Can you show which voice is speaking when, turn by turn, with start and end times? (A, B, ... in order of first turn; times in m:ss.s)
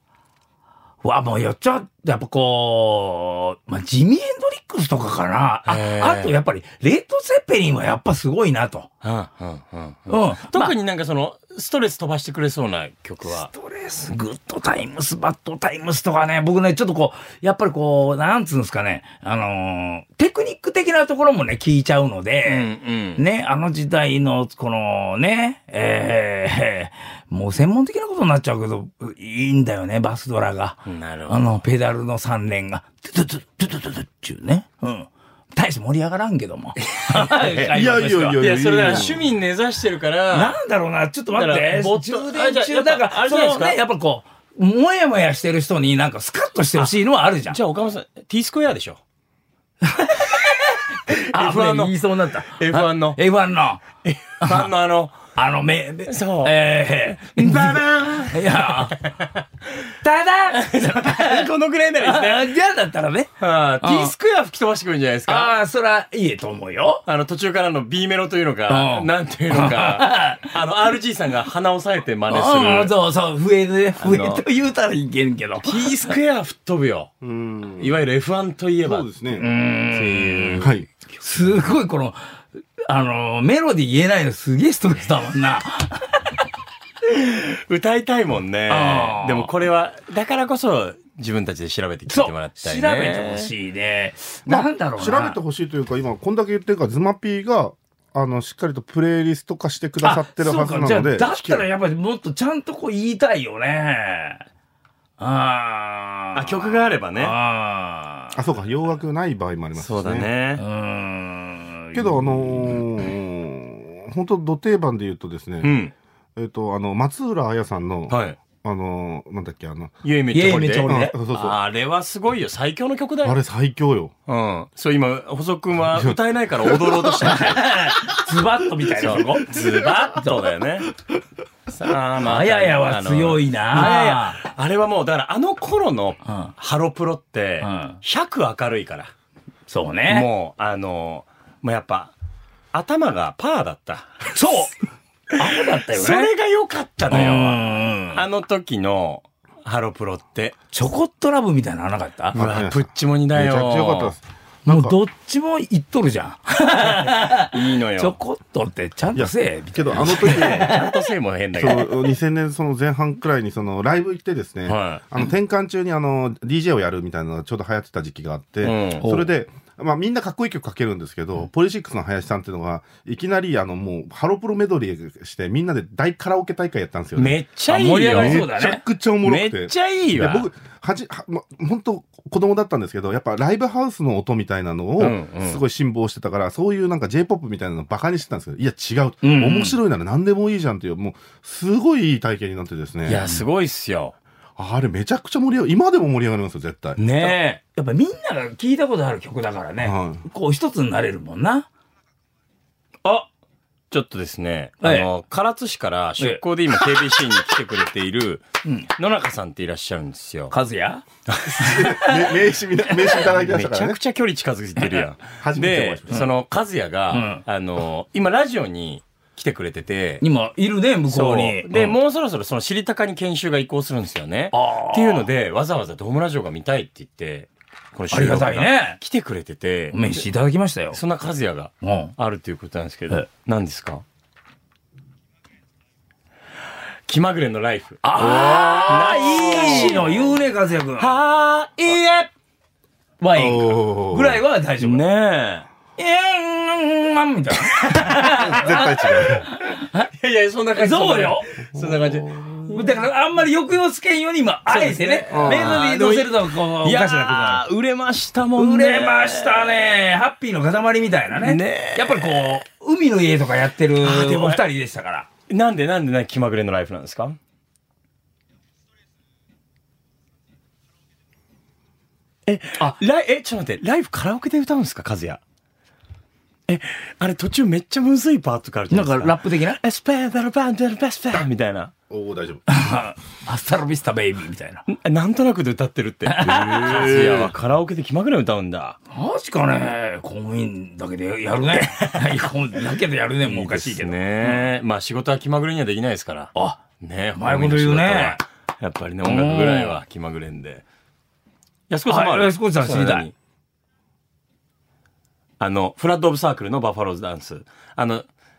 0:01.0-0:08.9 A
0:05.7-0:06.3 B
0:09.0-0:13.5 B
0:10.1-0:10.7 A
0:13.2-0:38.4 A
0:22.4-0:23.2 B
0:30.9-0:31.5 B
0:37.0-0:37.8 B
0:37.7-0:39.3 C
0:38.4-0:40.6 B
0:40.3-0:47.6 A
0:41.4-0:43.8 B
0:47.5-0:49.0 B
0:49.8-0:53.8 A
0:51.1-0:53.2 B
0:54.0-0:55.2 B
0:54.4-0:54.7 A
0:55.4-0:59.0 A
0:56.1-0:59.4 B
1:00.0-1:01.5 A
1:00.5-1:02.5 B
1:02.0-1:04.1 A
1:03.4-1:05.6 B
1:05.3-1:07.0 A
1:07.1-1:12.9 B
1:08.7-1:10.5 A
1:12.3-1:16.1 A
1:14.0-1:14.4 B
1:15.6-1:17.1 B
1:17.2-1:18.0 C
1:17.8-1:19.1 B
1:18.8-1:19.5 C
1:19.4-1:20.7 A
1:19.9-1:20.8 B
1:20.6-1:20.9 C
1:21.2-1:22.2 A
1:22.9-1:26.4 A
1:27.0-1:33.5 B
1:28.7-1:29.5 A
1:32.1-1:35.4 A
1:34.5-1:41.7 C
1:40.0-1:44.4 A
1:45.2-1:48.4 A
1:46.3-1:47.4 B
1:48.3-1:50.3 C
1:49.8-1:50.6 B
1:50.6-1:52.3 A
1:51.9-1:55.8 C
1:55.6-1:55.9 B
1:56.4-1:59.9 C
1:58.1-1:58.4 B
2:00.0-2:03.4 B
2:00.3-2:01.2 A
2:00.9-2:01.6 C
2:03.2-2:04.1 C
2:04.3-2:07.7 B
2:05.9-2:07.3 C
2:07.2-2:09.6 A
2:09.0-2:10.9 B
2:11.7-2:19.1 B
2:12.2-2:14.4 A
2:16.2-2:16.5 A
2:17.6-2:18.0 A
2:19.7-2:20.3 A
2:20.1-2:22.1 B
2:22.7-2:24.3 B
2:24.3-2:24.8 A
2:25.3-2:26.3 A
2:25.7-2:30.6 B
2:27.1-2:28.2 A
2:30.7-2:32.4 A
2:32.3-2:34.2 B
2:32.4-2:35.0 C
2:34.7-2:40.9 A
2:37.0-2:38.2 B
2:39.2-2:40.8 C
2:40.0-2:42.0 B
2:41.6-2:57.4 C
2:44.7-2:45.0 B
2:48.6-2:49.1 B
2:49.0-2:49.3 A
2:57.2-2:58.4 B
2:57.7-2:58.8 A
2:58.0-3:13.3 C
2:59.2-3:00.5 B
3:05.0-3:05.6 B
3:09.2-3:09.8 A
3:13.1-3:14.2 B
3:14.6-3:17.0 C
3:17.0-3:17.4 B
3:17.0-3:21.7 A
3:19.8-3:20.2 C
3:23.9-3:28.4 B
3:24.8-3:25.1 A
3:29.0-3:30.6 B
3:30.5-3:31.0 A
3:31.3-3:31.6 B
3:31.5-3:34.0 C
3:31.6-3:32.4 A
3:33.2-3:40.2 B
3:35.4-3:36.3 C
3:37.1-3:37.4 A
3:40.2-3:42.0 A
3:41.1-3:50.2 B
3:44.5-3:45.3 A
3:48.1-3:49.0 A
3:49.9-3:51.0 A
3:50.9-3:54.0 B
3:51.8-3:52.2 A
3:57.1-3:58.0 B
3:58.0-4:01.1 A
3:58.2-4:00.0 C
3:58.9-4:00.4 B
4:01.0-4:02.3 B
4:03.2-4:05.0 A
4:03.4-4:04.4 C
4:04.8-4:05.7 B
4:06.0-4:10.1 A
4:08.3-4:09.5 C
4:10.1-4:12.8 B
4:10.8-4:11.5 A
4:11.8-4:12.6 C
4:12.7-4:17.6 A
4:14.7-4:19.9 B
4:15.3-4:15.9 C
4:18.6-4:25.3 A
4:21.4-4:22.6 B
4:24.0-4:24.6 B
4:25.5-4:27.4 B
4:32.5-4:35.4 B
4:36.7-4:41.9 B
4:38.9-4:39.8 A
4:42.1-4:42.6 C
4:42.7-4:44.9 A
4:44.9-4:49.0 B
4:46.3-4:47.1 A
4:46.5-4:47.5 C
4:49.1-4:54.7 A
4:53.4-5:00.8 B
4:56.6-4:56.8 A
4:57.4-4:58.4 A
4:59.2-5:00.0 A
5:01.9-5:03.4 B
5:02.1-5:03.3 A
5:05.6-5:08.3 B